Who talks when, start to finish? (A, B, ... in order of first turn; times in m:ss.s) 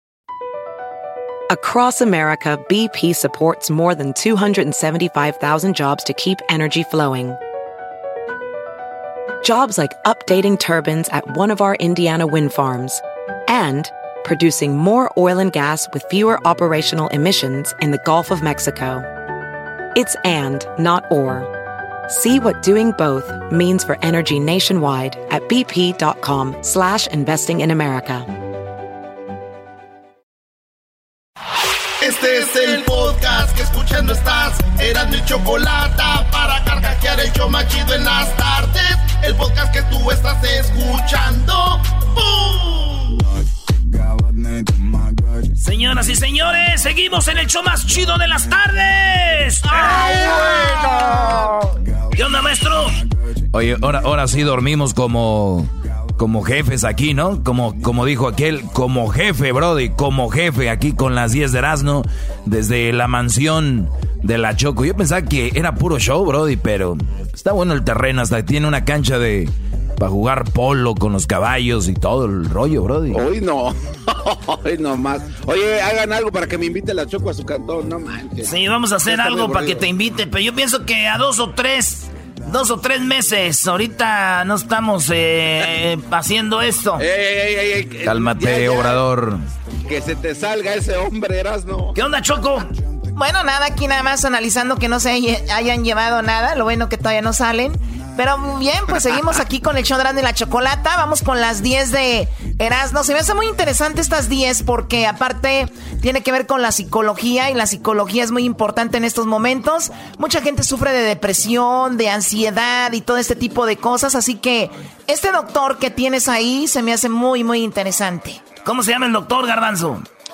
0:01.5-0:07.4 A
0:09.4-0:19.1 A
0:20.0-0:21.5 A
0:22.1-0:28.3 A
0:32.0-0:43.2 B
0:45.6-0:50.0 C
0:49.8-0:51.4 D
0:49.8-0:51.1 B
0:52.2-0:53.0 C
0:53.5-1:13.2 E
1:13.1-1:18.5 F
1:18.4-1:27.0 C
1:19.1-1:19.8 F
1:27.0-1:29.0 F
1:28.0-1:29.5 E
1:29.8-1:32.0 F
1:32.0-1:32.7 C
1:33.1-1:58.4 D
1:58.6-2:00.0 C